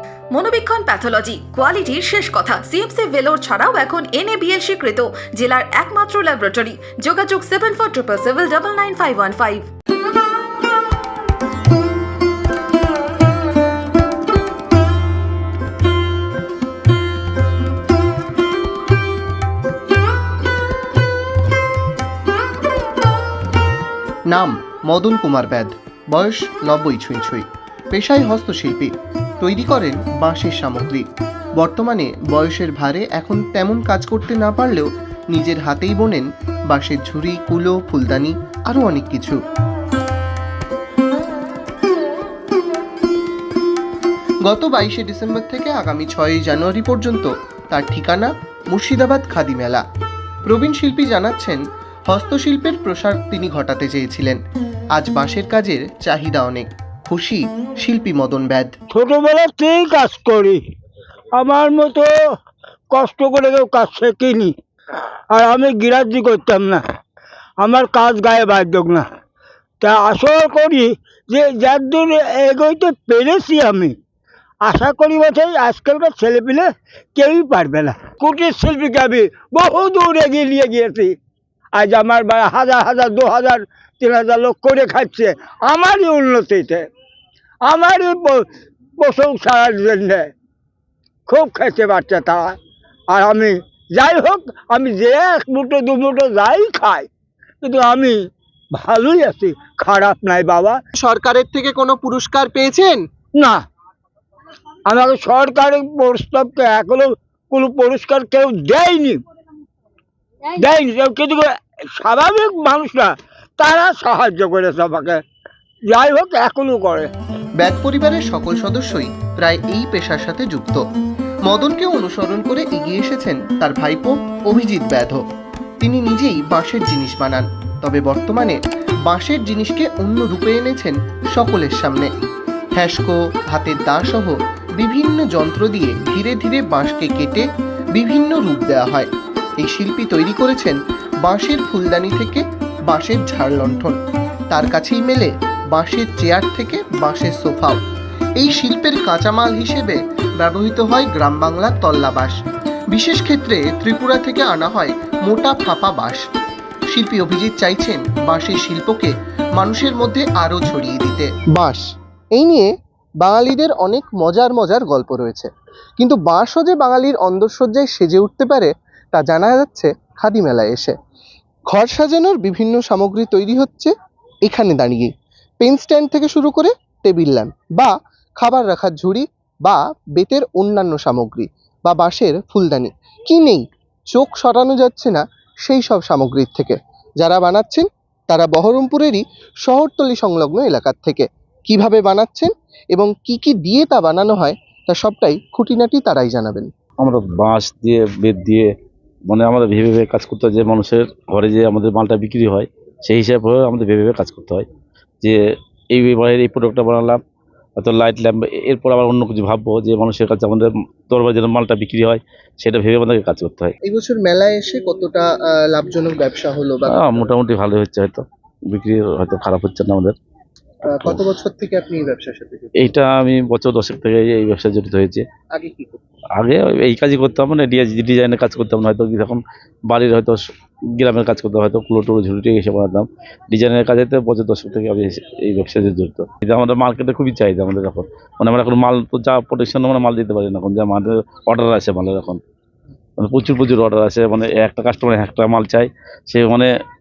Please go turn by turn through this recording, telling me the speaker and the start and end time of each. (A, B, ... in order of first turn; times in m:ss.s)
0:00.3-0:09.7 A
0:24.3-0:31.0 B
0:31.6-0:39.4 B
0:44.5-0:49.8 B
0:50.5-0:54.4 B
0:55.0-0:58.7 B
0:58.9-1:00.6 C
1:01.4-1:02.1 C
1:02.9-1:04.5 C
1:05.3-1:06.8 C
1:07.6-1:09.1 C
1:09.8-1:14.0 C
1:14.6-1:21.2 C
1:21.7-1:26.8 C
1:27.6-1:28.5 C
1:29.0-1:30.3 C
1:31.3-1:32.6 C
1:33.1-1:37.1 C
1:37.6-1:38.2 C
1:38.7-1:40.8 C
1:41.0-1:43.0 B
1:43.4-1:43.6 C
1:44.9-1:49.2 C
1:50.5-1:55.2 C
1:55.9-1:57.1 C
1:57.6-2:00.8 B
2:01.5-2:05.2 B
2:05.8-2:12.1 B
2:12.8-2:17.4 B
2:18.0-2:19.1 B
2:19.6-2:24.0 B
2:24.5-2:27.8 B
2:28.4-2:32.4 B
2:32.9-2:36.2 B
2:36.9-2:41.8 B
2:42.4-2:42.7 B
2:43.2-2:50.9 B
2:51.7-2:53.9 B
2:54.5-2:55.1 B
2:55.6-3:03.6 B
3:04.1-3:16.7 B
3:17.0-3:18.7 D
3:19.3-3:24.7 D
3:25.9-3:27.2 D
3:27.8-3:33.7 D
3:33.8-3:37.3 B
3:36.9-3:40.2 D
3:40.9-3:42.9 B
3:42.8-3:45.2 D
3:45.6-3:46.0 B
3:46.4-3:50.4 D
3:51.0-4:02.4 D
4:03.2-4:06.7 D